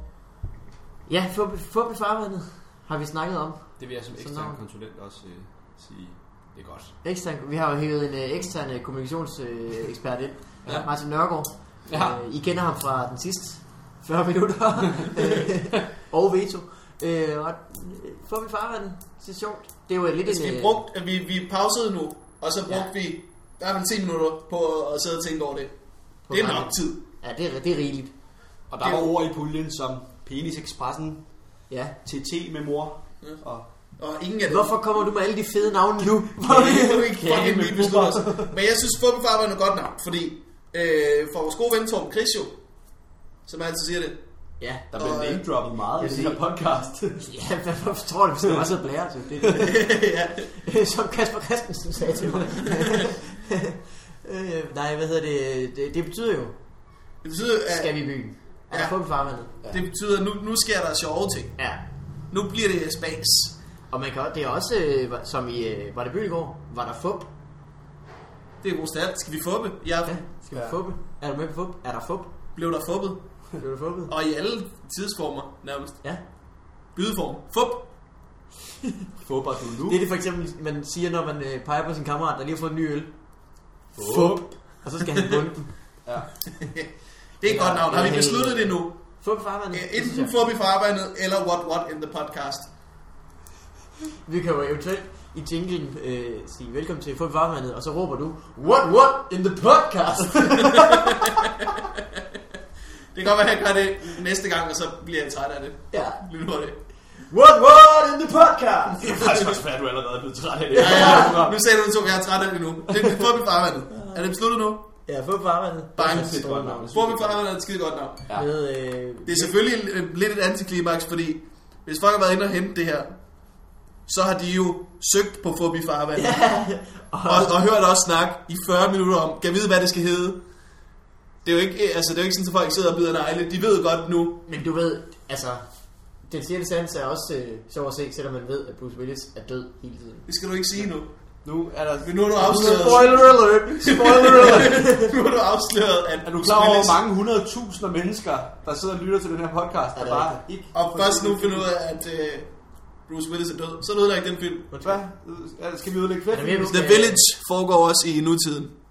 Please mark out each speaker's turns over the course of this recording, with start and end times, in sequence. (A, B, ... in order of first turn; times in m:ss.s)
0:01.1-0:04.6 A
0:03.8-0:06.9 B
0:07.0-0:20.8 A
0:11.9-0:12.2 B
0:20.2-0:27.0 C
0:26.3-0:28.1 A
0:28.7-0:31.4 B
0:28.8-0:29.1 C
0:31.7-0:32.0 A
0:32.0-0:33.6 B
0:34.0-0:34.8 C
0:34.5-0:37.6 A
0:36.4-0:42.6 C
0:37.3-0:38.5 B
0:43.4-0:44.2 C
0:44.6-0:44.8 A
0:44.9-0:47.3 B
0:44.9-0:45.4 C
0:46.0-0:46.4 A
0:47.2-0:56.6 A
0:48.4-0:48.8 B
0:49.6-0:50.5 C
0:57.2-1:01.8 C
0:57.7-0:59.5 A
1:01.6-1:01.8 A
1:02.3-1:03.6 C
1:03.9-1:07.3 A
1:08.6-1:10.2 C
1:10.0-1:12.3 A
1:10.5-1:10.8 B
1:12.5-1:16.1 C
1:13.6-1:14.1 A
1:16.7-1:17.9 C
1:19.2-1:20.0 B
1:19.8-1:26.0 A
1:23.9-1:24.6 B
1:26.0-1:26.4 B
1:26.6-1:32.7 C
1:27.4-1:30.3 A
1:34.2-1:41.7 A
1:43.1-1:46.8 C
1:45.9-1:46.2 A
1:47.2-1:49.2 A
1:49.0-1:51.5 B
1:50.7-1:51.6 A
1:50.8-1:54.8 C
1:53.9-1:54.3 A
1:55.0-1:56.9 A
1:56.0-1:57.4 B
1:56.0-1:58.3 C
1:58.3-1:59.5 A
1:59.2-2:03.2 C
2:04.0-2:06.5 C
2:06.2-2:07.5 A
2:07.2-2:10.4 C
2:11.4-2:14.4 C
2:14.4-2:20.3 A
2:20.2-2:21.1 C
2:21.4-2:23.2 B
2:22.0-2:27.0 C
2:22.4-2:25.1 A
2:26.2-2:31.7 B
2:29.9-2:30.4 A
2:30.7-2:32.5 C
2:33.0-2:34.9 C
2:34.7-2:35.0 A
2:34.8-2:36.8 B
2:36.3-2:37.2 A
2:36.7-2:38.7 C